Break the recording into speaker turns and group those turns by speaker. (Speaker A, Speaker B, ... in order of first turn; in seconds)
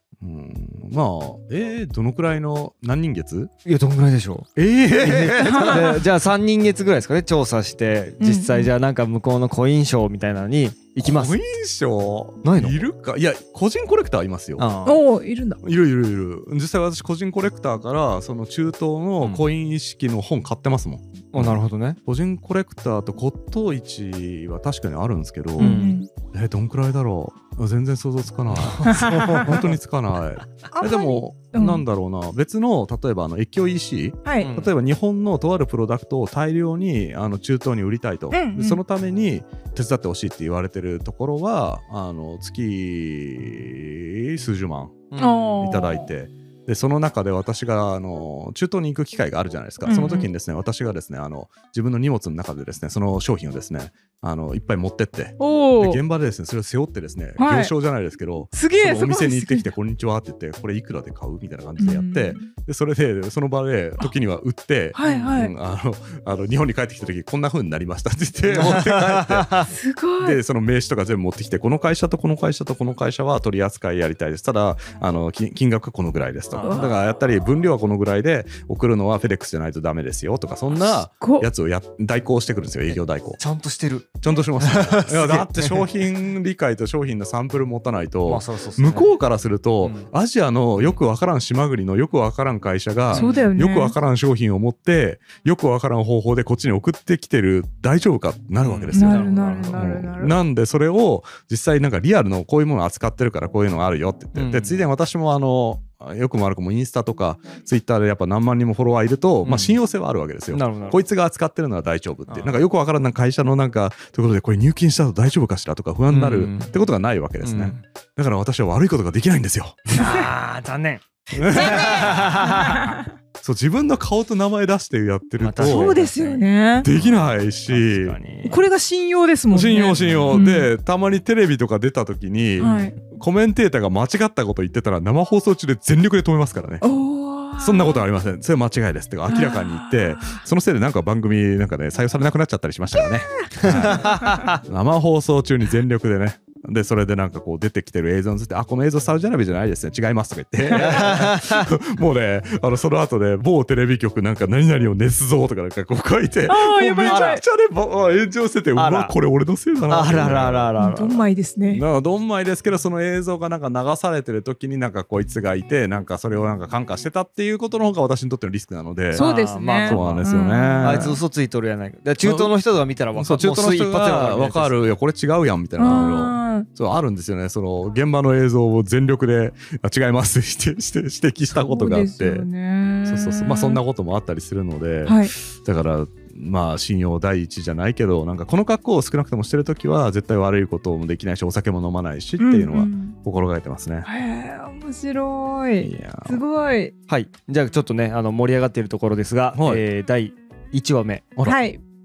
Speaker A: 0.2-3.5, 4.6-6.0, 11.0-14.7, 15.6-45.0, 45.6-69.6, 70.2-83.4, 84.2-119.9, 121.3-122.3, 123.4-126.0, 126.8-128.2, 129.5-136.8, 137.6-160.7, 161.7-169.3, 169.8-171.2, 172.2-172.5, 173.1-182.5, 183.1-194.1, 195.8-196.4, 199.5-199.8
Speaker B: 3.6-11.4, 12.4-12.8, 14.6-15.0, 21.3-22.0, 25.6-26.0, 28.5-29.7, 34.4-34.7, 45.1-45.5, 65.0-65.4, 68.5-69.7, 76.5-76.9, 82.9-85.8, 88.3-89.1, 89.8-90.1, 93.1-93.4, 98.6-99.8, 104.3-104.8, 109.4-109.8, 110.5-111.0, 112.3-112.6, 116.1-116.7, 117.4-117.8, 119.9-123.0, 125.4-128.6, 130.0-130.4, 132.6-132.9, 143.6-144.6, 150.7-151.7, 157.1-157.4, 158.8-159.2, 159.9-161.2, 169.1-174.9, 197.1-201.3
Speaker C: 5.4-5.9, 8.2-8.7, 14.8-15.6, 25.6-26.1, 28.9-29.5, 30.7-31.8, 34.2-34.5, 38.3-38.8, 45.2-46.1, 49.9-50.3, 55.4-56.0, 57.4-57.7, 58.5-59.7, 61.8-62.5, 65.0-65.5, 69.7-70.4, 76.6-77.0, 80.8-81.5, 93.1-94.0, 98.9-100.3, 120.0-120.3, 121.6-123.0, 125.6-126.9, 128.5-130.7, 132.6-133.0, 136.8-138.0, 139.3-140.4, 143.8-144.5, 150.8-151.0, 156.5-157.4, 160.8-161.8, 169.1-171.2, 175.8-176.7, 181.5-183.8, 185.1-185.3, 192.4-193.2, 194.1-196.9, 201.4-201.8